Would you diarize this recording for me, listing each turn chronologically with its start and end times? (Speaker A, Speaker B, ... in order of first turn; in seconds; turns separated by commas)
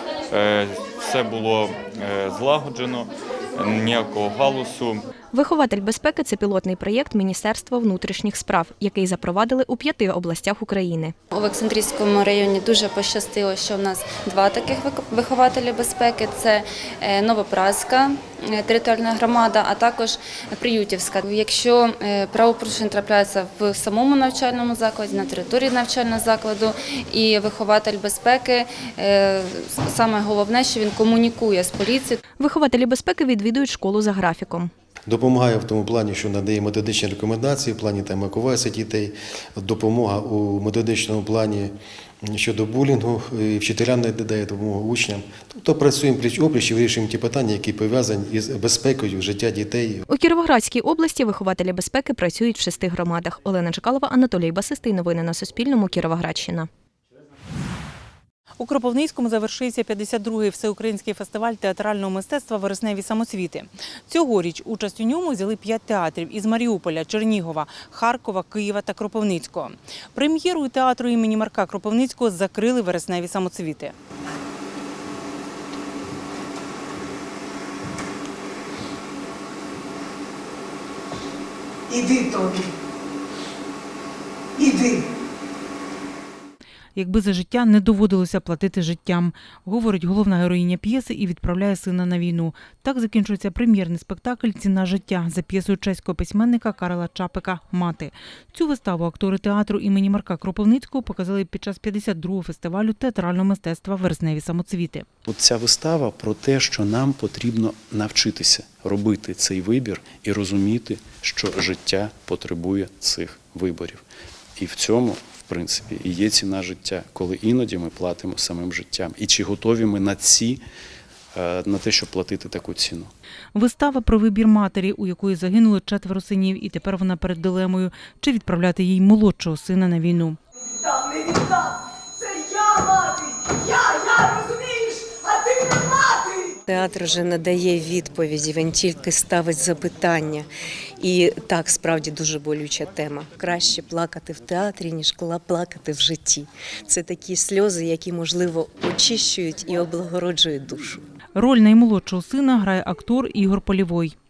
Speaker A: 0.3-5.0, Speaker B: 5.3-11.2, Speaker C: 11.3-32.2, Speaker B: 32.4-34.7, Speaker D: 35.1-41.7, Speaker D: 42.2-50.0, Speaker B: 50.1-56.7, Speaker E: 58.6-74.0, Speaker E: 87.0-105.1, Speaker F: 105.3-114.0, Speaker F: 114.6-120.6, Speaker F: 121.3-123.1, Speaker E: 123.5-130.4, Speaker G: 136.7-140.5, Speaker G: 141.0-151.0, Speaker E: 151.3-154.2